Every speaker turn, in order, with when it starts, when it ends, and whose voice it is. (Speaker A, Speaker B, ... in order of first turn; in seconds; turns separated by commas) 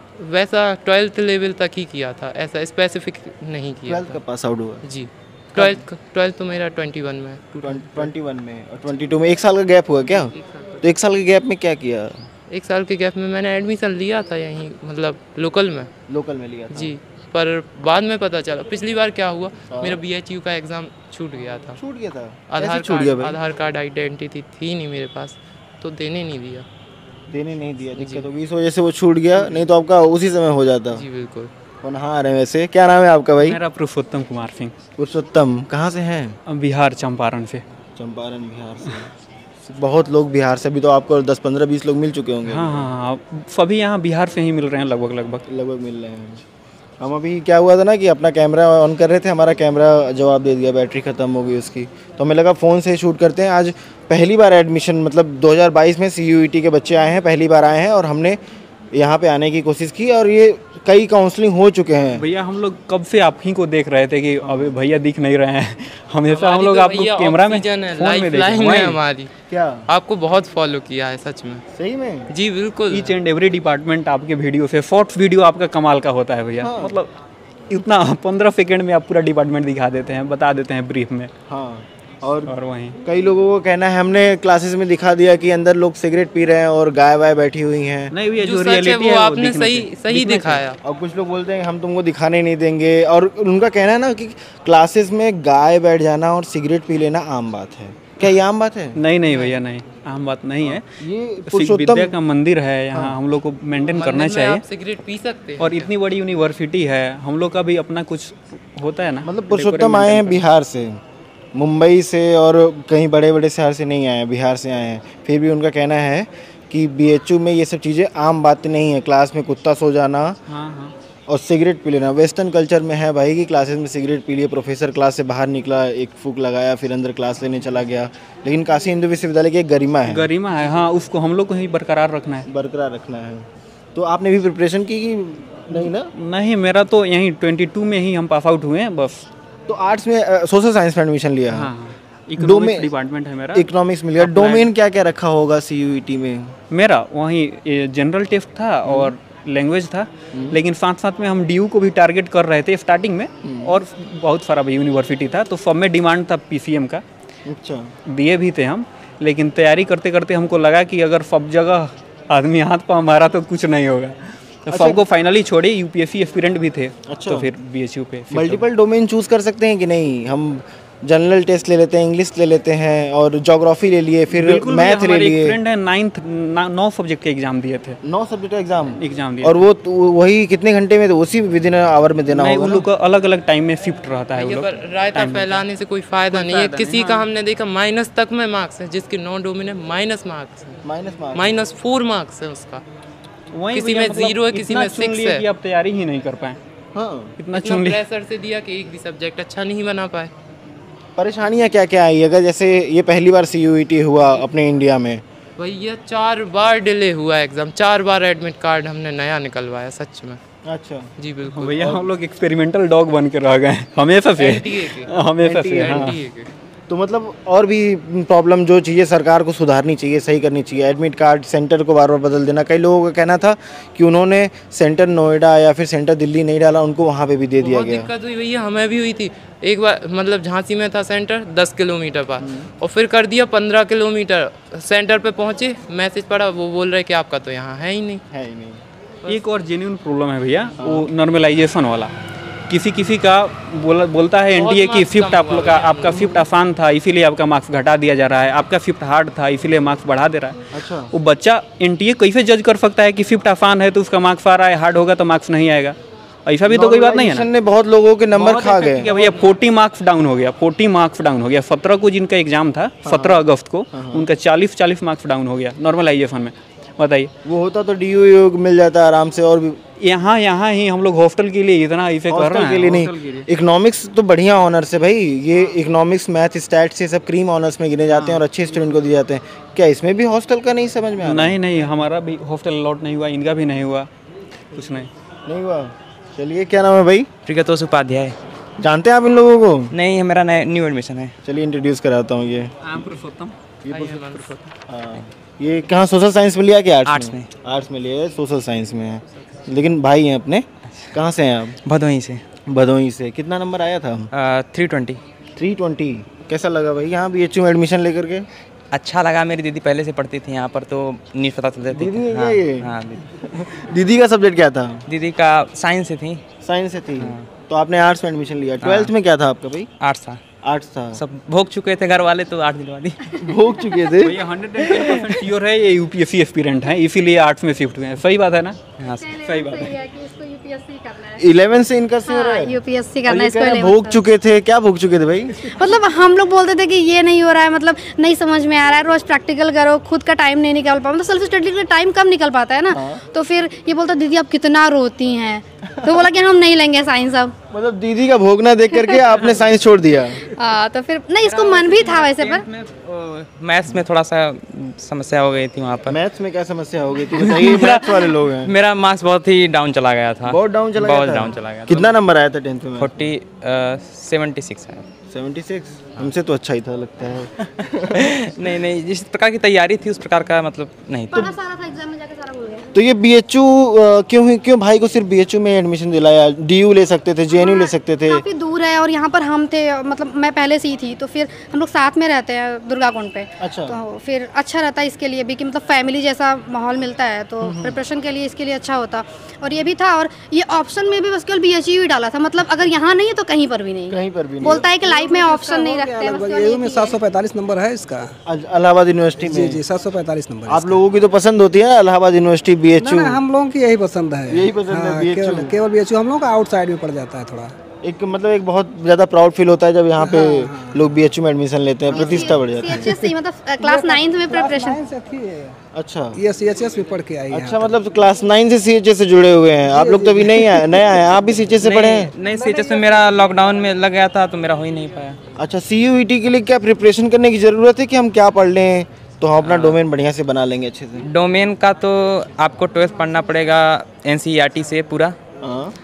Speaker A: 0.2-4.2, Speaker B: 3.9-4.8, Speaker A: 4.8-8.1, Speaker B: 5.5-5.8, Speaker B: 7.6-12.3, Speaker A: 10.2-10.7, Speaker A: 12.5-15.9, Speaker B: 16.1-16.9, Speaker A: 16.7-21.8, Speaker B: 19.7-20.0, Speaker B: 21.8-23.4, Speaker A: 22.5-26.6, Speaker B: 27.3-31.0, Speaker A: 28.0-28.2, Speaker A: 30.9-31.5, Speaker B: 31.8-33.6, Speaker C: 33.4-34.7, Speaker B: 35.0-36.4, Speaker C: 36.5-37.6, Speaker B: 38.0-39.1, Speaker B: 39.6-42.9, Speaker C: 42.5-45.4, Speaker B: 45.5-46.4, Speaker B: 47.0-58.4, Speaker B: 58.9-62.2, Speaker C: 62.1-69.0, Speaker B: 64.4-64.7, Speaker A: 66.2-69.3, Speaker B: 69.5-69.9, Speaker A: 69.9-71.6, Speaker B: 71.7-72.3, Speaker A: 72.3-73.1, Speaker C: 72.9-77.1, Speaker B: 76.6-77.0, Speaker C: 77.7-81.3, Speaker B: 81.5-82.5, Speaker C: 82.4-83.0, Speaker B: 83.0-88.1, Speaker C: 88.1-90.6, Speaker A: 88.4-90.8, Speaker B: 90.8-99.0, Speaker C: 99.0-100.8, Speaker A: 99.3-99.6, Speaker B: 100.6-102.1, Speaker C: 101.5-104.6, Speaker B: 102.9-103.2, Speaker A: 103.9-105.9, Speaker C: 105.6-110.4, Speaker B: 109.2-111.0, Speaker B: 111.5-120.4, Speaker C: 120.5-120.9, Speaker B: 121.3-130.3, Speaker C: 130.1-132.5, Speaker B: 132.5-136.1, Speaker C: 135.7-139.2, Speaker B: 139.7-141.7, Speaker C: 141.5-143.7, Speaker B: 142.4-142.9, Speaker B: 143.5-146.5, Speaker C: 144.2-144.7, Speaker C: 146.7-157.0, Speaker B: 148.8-149.1, Speaker B: 150.3-150.6, Speaker B: 153.4-153.8, Speaker B: 157.4-157.9, Speaker C: 158.1-168.6, Speaker B: 164.7-165.0, Speaker B: 167.1-167.5, Speaker B: 168.3-175.6, Speaker C: 174.3-178.0, Speaker B: 178.0-182.8, Speaker C: 178.9-179.6, Speaker C: 182.3-185.7, Speaker A: 184.3-190.8, Speaker C: 186.3-187.3, Speaker B: 190.8-191.6, Speaker A: 191.3-192.8, Speaker C: 193.5-196.6, Speaker A: 193.7-195.4, Speaker B: 196.9-197.3, Speaker C: 197.4-198.0, Speaker A: 197.5-200.3, Speaker B: 201.2-205.2, Speaker A: 205.6-210.4, Speaker B: 210.7-211.1, Speaker A: 211.2-211.9, Speaker C: 211.4-216.2, Speaker B: 211.8-212.0, Speaker A: 214.4-215.1, Speaker B: 215.4-216.2, Speaker A: 215.8-216.5, Speaker B: 216.9-228.1, Speaker A: 227.6-238.2, Speaker B: 232.4-232.7, Speaker B: 238.3-238.8, Speaker C: 239.3-242.1, Speaker B: 240.8-241.1, Speaker C: 242.7-257.5, Speaker A: 244.5-246.3, Speaker B: 246.1-246.4, Speaker B: 250.7-251.1, Speaker B: 256.7-259.2, Speaker C: 258.3-267.3, Speaker B: 263.0-264.3, Speaker B: 267.4-269.8, Speaker C: 270.0-273.5, Speaker B: 272.3-281.6, Speaker C: 278.1-278.4, Speaker C: 281.2-284.1, Speaker C: 284.7-285.1, Speaker B: 285.4-287.3, Speaker D: 287.4-288.3, Speaker B: 288.8-289.9, Speaker D: 289.9-291.3, Speaker B: 291.4-292.7, Speaker C: 292.8-294.6, Speaker A: 293.9-294.7, Speaker B: 294.9-301.8, Speaker D: 297.1-297.5, Speaker D: 301.8-302.4, Speaker B: 302.7-304.3, Speaker D: 304.3-305.2, Speaker B: 305.6-308.4, Speaker D: 308.9-313.4, Speaker B: 311.9-312.9, Speaker B: 313.5-315.0, Speaker D: 315.1-316.4, Speaker B: 316.6-319.9, Speaker D: 317.2-317.5, Speaker D: 318.8-319.1, Speaker D: 320.0-320.4, Speaker B: 320.6-321.2, Speaker D: 321.1-323.5, Speaker B: 323.4-324.4, Speaker C: 324.2-328.8, Speaker D: 329.0-329.3, Speaker E: 329.1-331.5, Speaker C: 329.3-330.0, Speaker B: 331.4-335.7, Speaker E: 332.2-334.2, Speaker E: 335.6-347.5, Speaker B: 342.9-343.2, Speaker B: 347.7-350.4, Speaker E: 350.5-352.6, Speaker D: 351.4-356.2, Speaker B: 356.1-358.7, Speaker D: 357.3-362.2, Speaker B: 360.4-363.2, Speaker D: 363.0-365.1, Speaker B: 365.3-368.6, Speaker D: 368.1-371.5, Speaker E: 371.3-372.9, Speaker B: 372.9-378.4, Speaker E: 377.5-397.2, Speaker B: 383.6-384.0, Speaker B: 387.6-388.0, Speaker B: 394.1-394.9, Speaker F: 394.9-398.3, Speaker B: 398.4-399.8, Speaker F: 399.4-401.0, Speaker B: 400.7-403.4, Speaker F: 403.1-407.7, Speaker B: 404.5-405.8, Speaker B: 408.0-413.2, Speaker F: 410.2-410.9, Speaker E: 412.1-415.0, Speaker F: 412.1-415.8, Speaker B: 415.9-416.4, Speaker F: 416.4-417.9, Speaker B: 417.5-422.3, Speaker F: 419.9-421.0, Speaker D: 421.8-425.4, Speaker F: 422.6-423.1, Speaker B: 425.6-431.3, Speaker D: 429.6-430.0, Speaker D: 431.2-435.4, Speaker B: 435.6-435.9